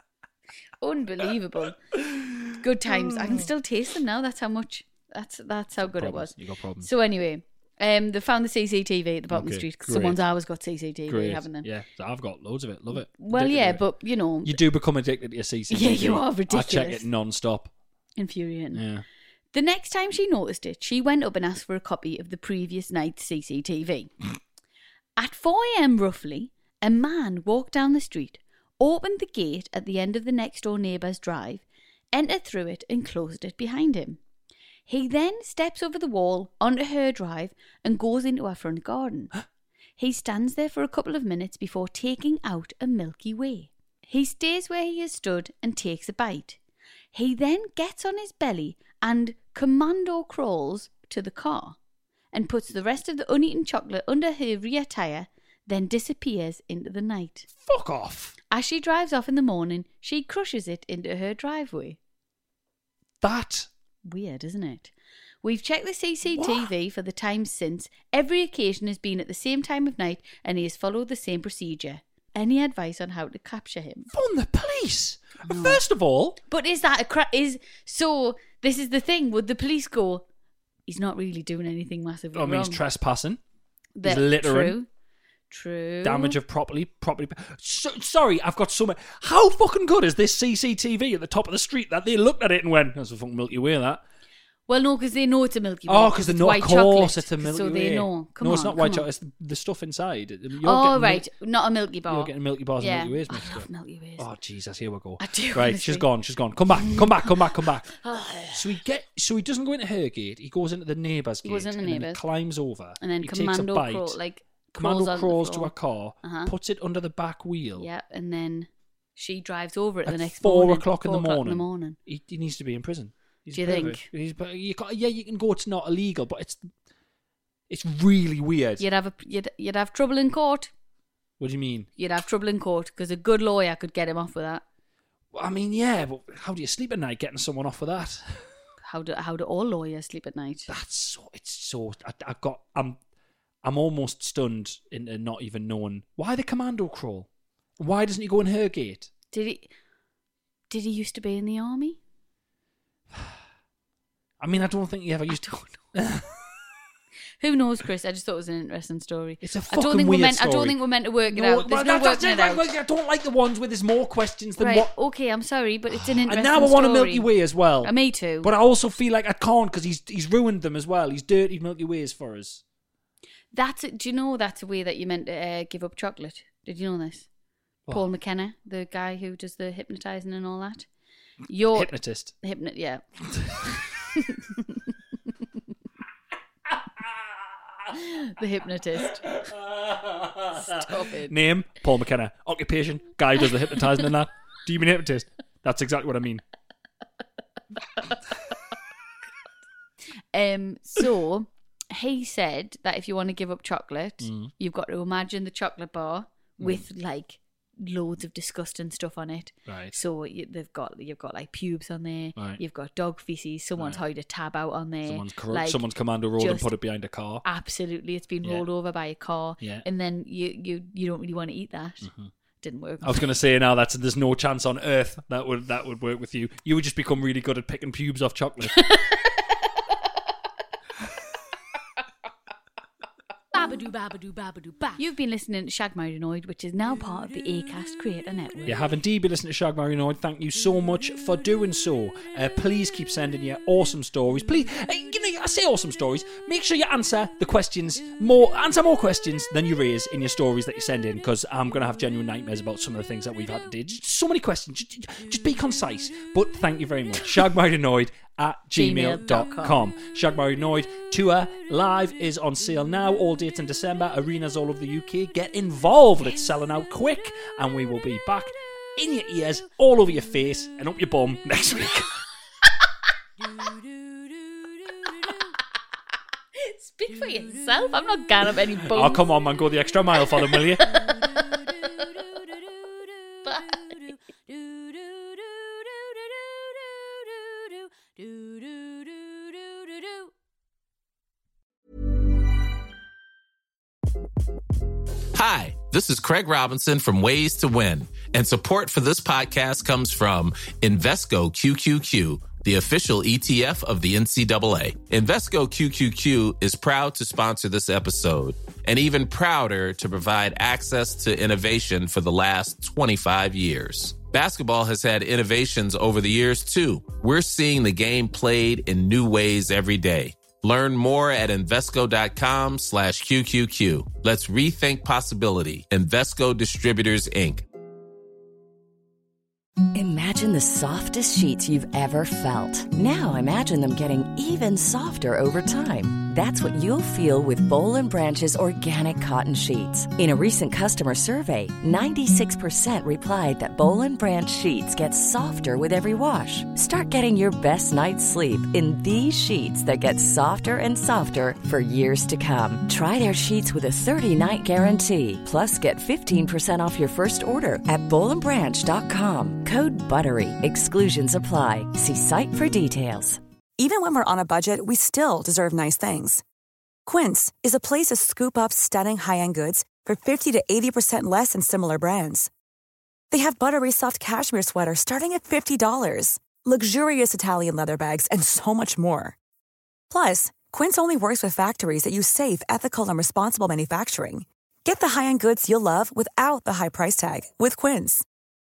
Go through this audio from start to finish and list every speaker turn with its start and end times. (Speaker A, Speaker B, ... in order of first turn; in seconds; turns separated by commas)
Speaker A: 0.8-1.8, Speaker B: 1.9-3.5, Speaker A: 2.5-11.7, Speaker B: 5.8-6.9, Speaker B: 9.3-10.2, Speaker B: 11.1-13.9, Speaker A: 13.1-14.6, Speaker B: 14.4-17.7, Speaker A: 15.7-17.1, Speaker A: 18.2-18.8, Speaker B: 18.7-19.0, Speaker A: 19.5-24.1, Speaker A: 25.2-34.2, Speaker A: 34.9-39.3, Speaker A: 40.0-46.6, Speaker A: 47.1-51.8, Speaker A: 52.3-57.5, Speaker B: 57.6-58.4, Speaker A: 58.5-62.0, Speaker B: 63.2-63.7, Speaker A: 64.1-64.9, Speaker A: 65.4-74.1, Speaker B: 66.3-66.7, Speaker B: 74.1-76.4, Speaker A: 75.4-75.8, Speaker A: 76.5-80.2, Speaker A: 80.9-82.8, Speaker B: 82.3-83.4, Speaker A: 84.0-84.9, Speaker B: 84.0-84.8, Speaker A: 85.5-86.4, Speaker B: 86.0-94.0, Speaker A: 94.7-99.1, Speaker B: 95.9-101.3, Speaker A: 100.6-104.2, Speaker B: 102.1-108.0, Speaker A: 105.2-106.1, Speaker A: 106.8-108.8, Speaker B: 108.5-114.2, Speaker A: 111.4-112.2, Speaker A: 113.0-116.5, Speaker B: 114.8-117.9, Speaker A: 117.8-122.0, Speaker B: 120.1-126.7, Speaker A: 123.5-124.1, Speaker B: 127.7-128.8, Speaker A: 128.8-130.7, Speaker B: 131.4-131.9, Speaker A: 132.0-134.6, Speaker B: 135.3-138.5, Speaker A: 138.8-140.7, Speaker B: 140.7-143.0, Speaker B: 143.6-149.1, Speaker A: 149.3-149.7, Speaker A: 150.7-152.0, Speaker B: 154.4-156.5, Speaker A: 155.4-155.7, Speaker A: 157.4-162.7, Speaker B: 159.4-164.9, Speaker A: 164.6-167.3, Speaker B: 165.9-172.6, Speaker A: 167.8-168.5, Speaker A: 173.5-177.3, Speaker A: 177.9-180.9, Speaker A: 181.5-183.0, Speaker B: 181.7-182.3, Speaker A: 184.2-184.8, Speaker B: 187.0-187.2, Speaker A: 187.9-189.3, Speaker B: 189.0-196.4, Speaker A: 190.5-191.3, Speaker A: 200.3-216.7, Speaker B: 204.2-204.5, Speaker B: 206.6-206.8, Speaker B: 209.7-210.0, Speaker B: 212.4-212.6, Speaker B: 213.8-214.0, Speaker B: 215.1-217.4, Speaker A: 217.4-222.1, Speaker B: 219.6-219.8, Speaker B: 222.0-222.3, Speaker A: 222.6-223.3, Speaker B: 223.0-228.9, Speaker A: 228.8-229.1, Speaker C: 233.5-235.0, Speaker A: 235.0-238.8, Speaker B: 238.7-272.2, Speaker A: 258.7-259.9, Speaker A: 276.6-279.2, Speaker B: 278.6-281.4, Speaker A: 280.4-281.7, Speaker A: 283.5-283.8, Speaker C: 283.5-285.6, Speaker C: 288.2-290.3, Speaker D: 295.3-327.6, Speaker E: 329.9-363.4, Speaker F: 363.8-366.4, Speaker F: 367.1-372.5, Speaker F: 373.3-379.4, Speaker F: 380.1-388.2